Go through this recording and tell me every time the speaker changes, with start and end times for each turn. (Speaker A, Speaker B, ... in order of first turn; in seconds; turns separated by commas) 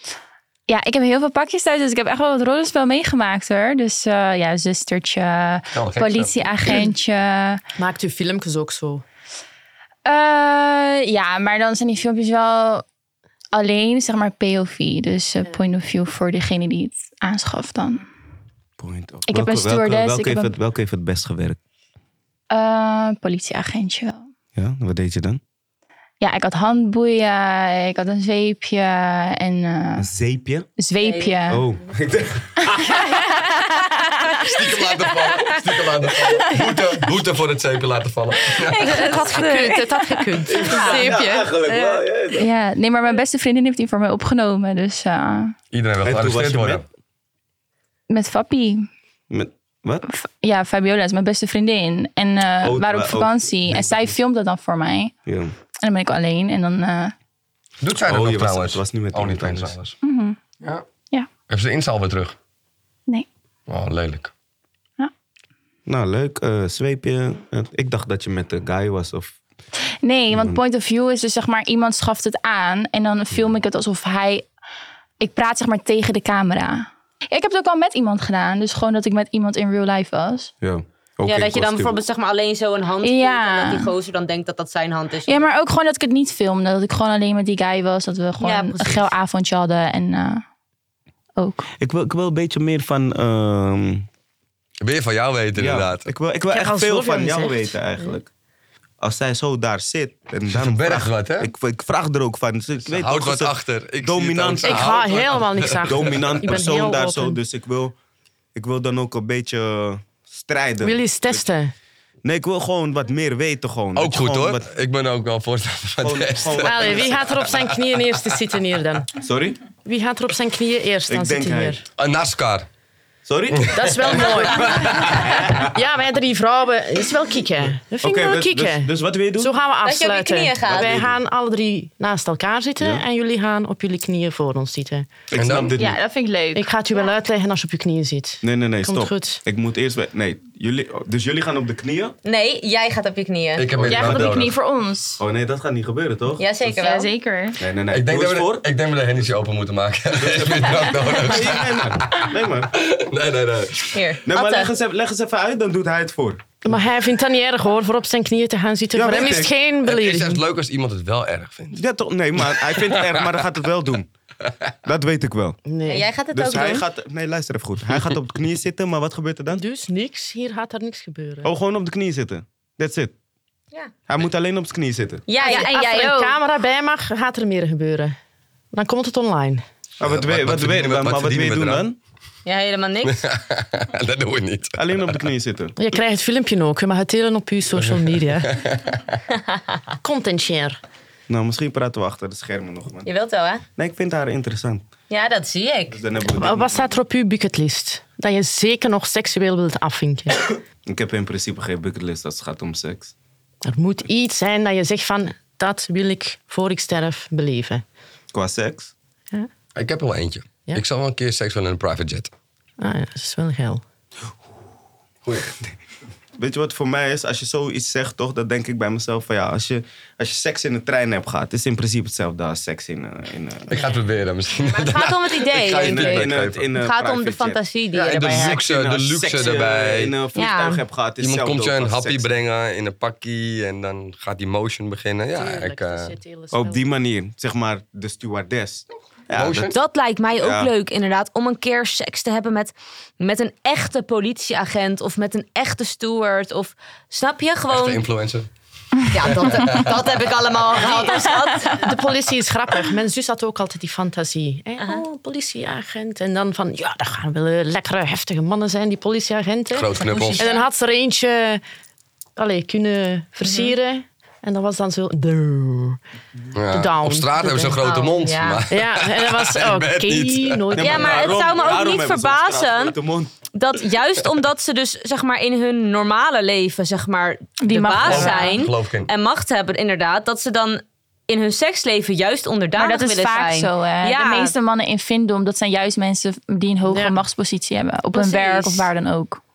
Speaker A: 0.7-7.6, Speaker B: 5.7-6.5, Speaker C: 7.8-9.0, Speaker A: 10.0-12.8, Speaker A: 13.5-18.0, Speaker D: 18.8-21.6, Speaker A: 19.3-20.5, Speaker A: 22.5-24.2, Speaker D: 24.5-25.4, Speaker A: 26.2-30.1, Speaker D: 30.0-30.7, Speaker A: 30.8-31.6, Speaker E: 31.0-31.4, Speaker D: 31.5-33.1, Speaker A: 32.6-34.5, Speaker B: 34.3-39.2, Speaker A: 38.5-41.0, Speaker C: 38.8-42.0, Speaker D: 40.5-42.5, Speaker E: 40.7-41.1, Speaker A: 42.3-45.5, Speaker B: 45.7-46.8, Speaker D: 46.0-46.8, Speaker A: 48.1-48.9, Speaker D: 49.3-50.0, Speaker A: 50.0-55.1, Speaker D: 52.6-54.1, Speaker D: 55.2-55.5, Speaker A: 55.8-57.1, Speaker B: 57.8-60.0, Speaker D: 58.0-59.8, Speaker A: 60.0-60.4, Speaker B: 60.6-60.9, Speaker B: 61.5-62.4, Speaker B: 63.7-64.3, Speaker D: 65.9-69.4, Speaker A: 70.0-74.5, Speaker D: 70.3-70.6, Speaker A: 75.2-80.5, Speaker D: 80.6-82.0, Speaker E: 81.2-85.4, Speaker A: 83.0-83.9, Speaker A: 85.3-90.4, Speaker E: 88.4-89.1, Speaker A: 91.4-91.7, Speaker D: 91.8-94.1, Speaker B: 94.8-96.0, Speaker D: 95.5-98.3, Speaker C: 96.5-97.7, Speaker D: 99.0-105.0, Speaker B: 100.5-101.5, Speaker B: 102.9-106.5, Speaker C: 104.6-107.4, Speaker D: 105.8-107.9, Speaker D: 108.5-111.4, Speaker C: 110.8-111.7, Speaker D: 112.2-114.7, Speaker B: 114.0-117.6, Speaker D: 116.0-117.5, Speaker C: 116.6-119.1, Speaker D: 119.2-119.6, Speaker C: 119.8-121.8, Speaker D: 121.1-121.8, Speaker B: 122.0-122.7, Speaker D: 123.2-125.7, Speaker B: 123.6-125.5, Speaker C: 123.7-135.1, Speaker D: 128.0-129.5, Speaker E: 129.8-130.9, Speaker D: 130.6-131.2, Speaker D: 132.8-133.0, Speaker D: 135.3-136.0, Speaker B: 135.3-135.8, Speaker A: 135.7-136.7, Speaker C: 136.5-139.4, Speaker D: 138.4-142.1, Speaker E: 142.2-143.7, Speaker B: 143.6-144.5, Speaker D: 143.8-144.5, Speaker A: 143.8-145.2, Speaker D: 145.2-146.4, Speaker E: 146.4-147.1, Speaker A: 146.7-147.6, Speaker D: 147.6-148.7, Speaker B: 147.9-154.0, Speaker D: 150.2-152.7, Speaker E: 153.9-154.7, Speaker D: 154.2-156.6, Speaker C: 156.6-160.4, Speaker D: 158.9-159.5, Speaker B: 159.2-161.8, Speaker D: 161.7-164.1, Speaker B: 162.4-163.4, Speaker D: 164.8-165.6, Speaker C: 165.7-166.1, Speaker E: 165.9-166.8, Speaker D: 166.3-169.6, Speaker C: 169.5-171.5, Speaker D: 171.4-173.1, Speaker D: 174.1-175.2, Speaker E: 175.3-176.1, Speaker C: 175.4-178.2, Speaker A: 175.4-176.4, Speaker C: 178.7-179.6, Speaker D: 180.0-182.0, Speaker B: 180.0-181.9, Speaker E: 182.4-183.2, Speaker B: 183.0-185.2, Speaker D: 184.8-185.7, Speaker C: 185.8-188.5, Speaker B: 187.8-189.2, Speaker C: 190.0-190.8, Speaker D: 191.3-193.1, Speaker E: 193.0-193.6, Speaker D: 193.8-194.8, Speaker E: 195.1-196.2, Speaker D: 195.9-196.9, Speaker C: 196.3-200.5, Speaker D: 200.8-203.1, Speaker C: 203.6-207.8, Speaker D: 208.3-208.9, Speaker B: 209.7-212.3, Speaker C: 212.8-213.8, Speaker B: 215.2-215.6, Speaker D: 216.4-223.9, Speaker B: 223.7-226.7, Speaker E: 224.5-228.6, Speaker D: 225.7-227.6, Speaker B: 227.9-230.2, Speaker D: 228.2-232.3, Speaker E: 230.3-230.8, Speaker B: 231.2-236.1, Speaker C: 235.3-236.9, Speaker D: 236.5-239.7, Speaker B: 239.3-239.7, Speaker E: 239.7-248.0, Speaker D: 240.3-240.7, Speaker B: 247.7-248.5, Speaker E: 249.1-252.0, Speaker B: 249.1-250.1, Speaker C: 251.5-261.6, Speaker B: 259.7-260.4, Speaker E: 260.0-260.6, Speaker C: 262.4-266.0, Speaker E: 263.4-263.7, Speaker B: 266.5-270.7, Speaker C: 266.7-271.4, Speaker E: 268.2-268.6, Speaker D: 270.7-273.3, Speaker E: 270.8-272.9, Speaker E: 273.5-284.5, Speaker A: 277.6-278.6, Speaker B: 278.0-279.1, Speaker A: 282.7-289.4, Speaker C: 286.8-287.2, Speaker E: 288.1-288.9